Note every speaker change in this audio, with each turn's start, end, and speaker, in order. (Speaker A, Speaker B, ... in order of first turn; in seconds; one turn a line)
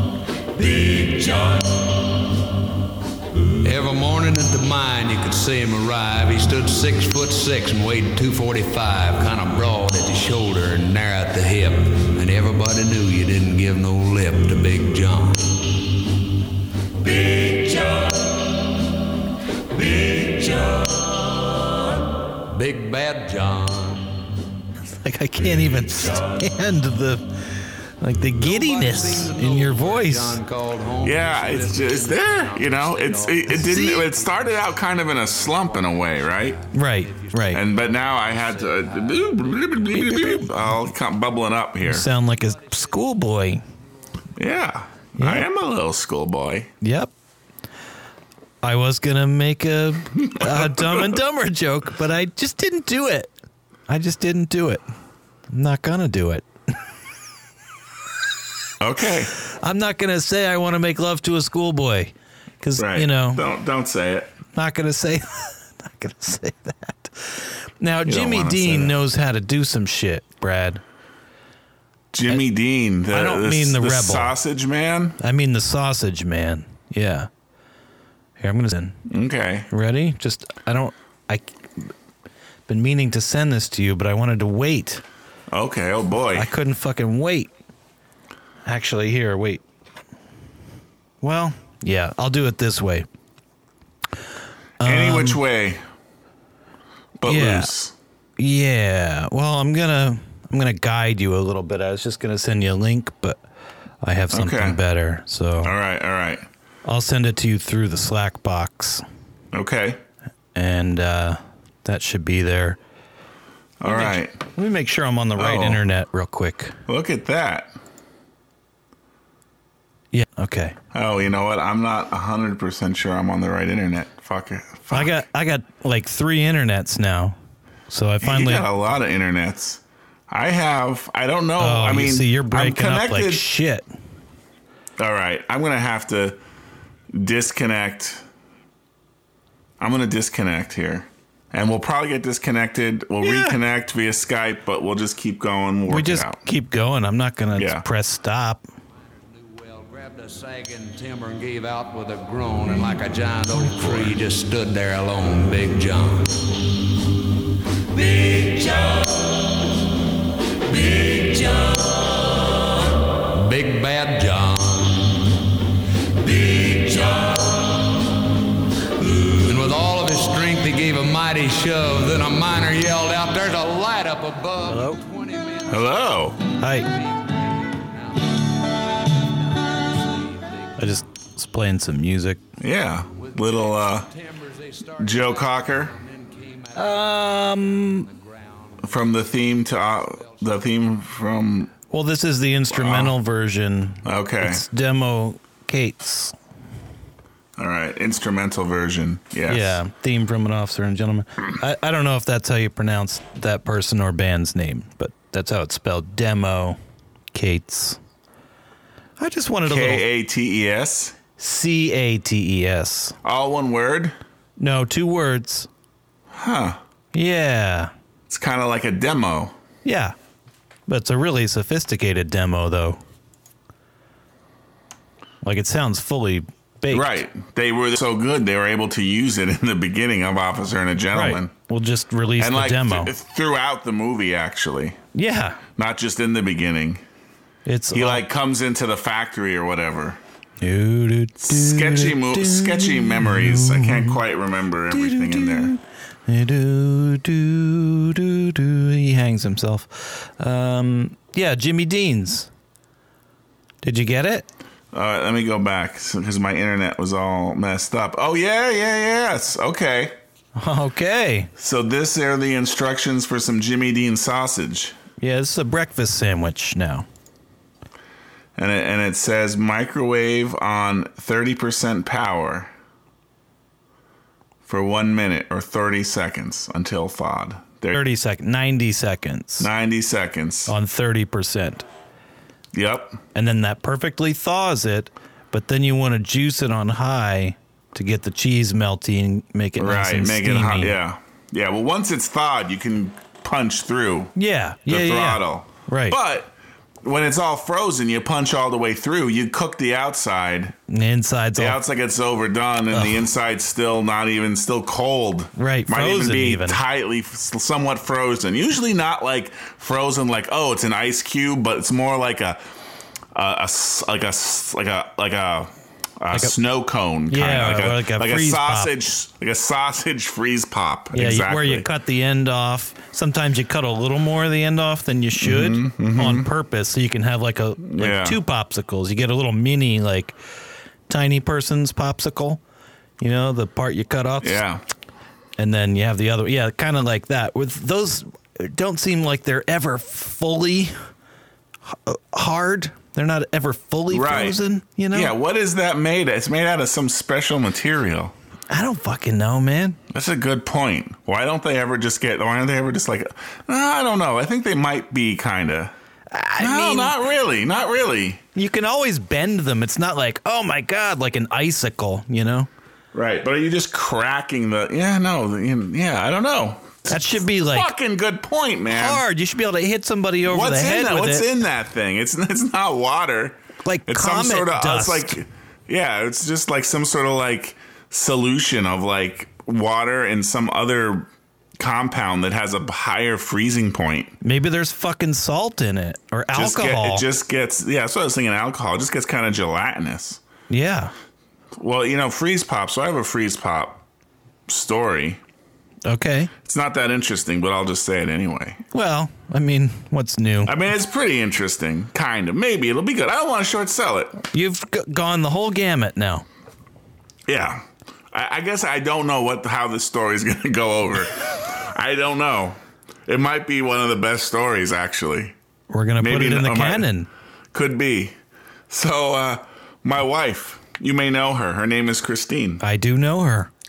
Speaker A: 0.6-1.9
Speaker A: 3.6-15.6
Speaker A: 17.0-18.5
Speaker A: 19.7-21.9
Speaker A: 22.4-24.2
Speaker B: 24.9-30.4
Speaker A: 28.4-40.5
Speaker C: 31.0-36.6
Speaker B: 33.5-34.1
Speaker B: 36.7-37.6
Speaker C: 37.5-42.1
Speaker B: 41.9-43.6
Speaker C: 44.4-46.7
Speaker B: 45.2-45.5
Speaker B: 46.8-47.1
Speaker B: 48.6-53.3
Speaker C: 50.2-51.2
Speaker B: 53.9-54.8
Speaker B: 55.5-56.5
Speaker C: 58.8-59.3
Speaker B: 59.4-63.4
Speaker C: 62.8-64.3
Speaker B: 64.5-70.8
Speaker C: 68.1-69.0
Speaker C: 72.1-75.2
Speaker B: 73.1-74.3
Speaker B: 75.2-77.3
Speaker B: 78.4-79.0
Speaker C: 79.1-79.7
Speaker B: 79.7-81.9
Speaker B: 82.7-85.0
Speaker C: 85.5-86.5
Speaker B: 86.3-87.5
Speaker B: 88.7-89.6
Speaker B: 91.2-93.1
Speaker B: 94.8-95.4
Speaker C: 94.8-95.8
Speaker C: 97.2-97.9
Speaker B: 97.3-97.7
Speaker B: 98.4-103.4
Speaker B: 104.0-105.7
Speaker C: 104.3-104.8
Speaker C: 105.6-106.5
Speaker B: 106.9-109.0
Speaker C: 109.5-110.0
Speaker B: 110.5-112.8
Speaker C: 113.8-114.4
Speaker B: 113.8-116.8
Speaker C: 115.4-115.8
Speaker C: 116.9-117.7
Speaker B: 120.1-120.8
Speaker C: 120.9-125.2
Speaker B: 124.9-127.4
Speaker B: 127.9-128.7
Speaker C: 128.2-133.5
Speaker B: 131.6-133.9
Speaker C: 135.0-136.4
Speaker C: 137.1-138.2
Speaker C: 139.8-146.4
Speaker B: 143.2-143.6
Speaker B: 145.9-148.7
Speaker C: 147.6-147.8
Speaker A: 149.3-156.5
Speaker B: 153.6-154.1
Speaker A: 157.9-159.6
Speaker A: 160.7-165.5
Speaker A: 166.2-168.1
Speaker A: 169.0-176.0
Speaker B: 174.7-175.0
Speaker C: 175.7-176.4
Speaker B: 176.6-176.9
Speaker A: 176.8-178.5
Speaker A: 179.2-180.8
Speaker B: 180.8-182.4
Speaker C: 182.6-184.1
Speaker A: 183.1-188.9
Speaker C: 185.0-185.9
Speaker B: 186.8-188.1
Speaker C: 188.8-191.7
Speaker A: 190.0-190.5
Speaker B: 191.9-196.4
Speaker C: 192.7-193.2
Speaker C: 194.1-194.7
Speaker C: 197.6-199.8
Speaker B: 199.5-206.8
Speaker B: 207.3-208.0
Speaker B: 209.2-210.1
Speaker C: 209.7-211.2
Speaker B: 211.4-213.2
Speaker C: 213.2-214.2
Speaker B: 214.6-215.7
Speaker C: 216.3-216.8
Speaker B: 217.1-217.9
Speaker C: 218.3-219.6
Speaker B: 219.8-220.2
Speaker B: 220.9-223.0
Speaker B: 225.4-227.2
Speaker C: 226.9-231.5
Speaker B: 231.1-233.1
Speaker C: 232.4-235.0
Speaker B: 235.1-235.6
Speaker C: 235.8-237.0
Speaker B: 237.7-238.2
Speaker C: 237.9-240.2
Speaker B: 240.6-244.2
Speaker C: 241.4-245.7
Speaker B: 244.9-252.5
Speaker B: 253.8-254.5
Speaker C: 254.9-260.2
Speaker B: 260.6-261.5
Speaker C: 261.6-265.0
Speaker B: 265.2-267.1
Speaker C: 268.6-272.7
Speaker C: 274.6-278.0
Speaker B: 277.9-279.7
Speaker C: 279.6-280.7
Speaker B: 280.7-281.9
Speaker C: 282.7-283.2
Speaker B: 283.3-291.0
Speaker C: 289.8-294.3
Speaker B: 294.4-296.2
Speaker C: 294.9-300.8
Speaker B: 300.9-301.8
Speaker C: 301.6-312.6
Speaker B: 302.9-303.2
Speaker B: 305.6-306.8
Speaker C: 313.3-321.9
Speaker B: 317.3-318.9
Speaker B: 321.1-330.4
Speaker C: 325.4-326.5
Speaker C: 327.8-328.4
Speaker B: 331.1-332.6
Speaker B: 333.2-334.6
Speaker C: 334.4-334.8
Speaker B: 335.6-340.9
Speaker B: 341.9-345.4
Speaker C: 344.1-344.6
Speaker C: 345.1-348.4
Speaker B: 348.7-350.0
Speaker C: 350.1-355.9
Speaker B: 356.3-357.2
Speaker C: 356.6-358.4
Speaker B: 358.6-362.7
Speaker C: 363.1-369.2
Speaker B: 367.1-367.9
Speaker B: 368.9-371.5
Speaker C: 370.4-384.4
Speaker B: 373.8-375.4
Speaker B: 384.4-387.3
Speaker C: 386.5-390.4
Speaker B: 390.7-391.1
Speaker C: 391.8-394.0
Speaker C: 394.7-395.4
Speaker B: 396.1-396.5
Speaker C: 396.6-398.8
Speaker B: 398.9-400.8
Speaker C: 400.6-404.4
Speaker B: 404.5-406.5
Speaker C: 407.5-415.6
Speaker B: 415.9-417.3
Speaker C: 416.2-417.1
Speaker C: 417.7-418.4
Speaker C: 418.9-422.8
Speaker B: 422.8-423.7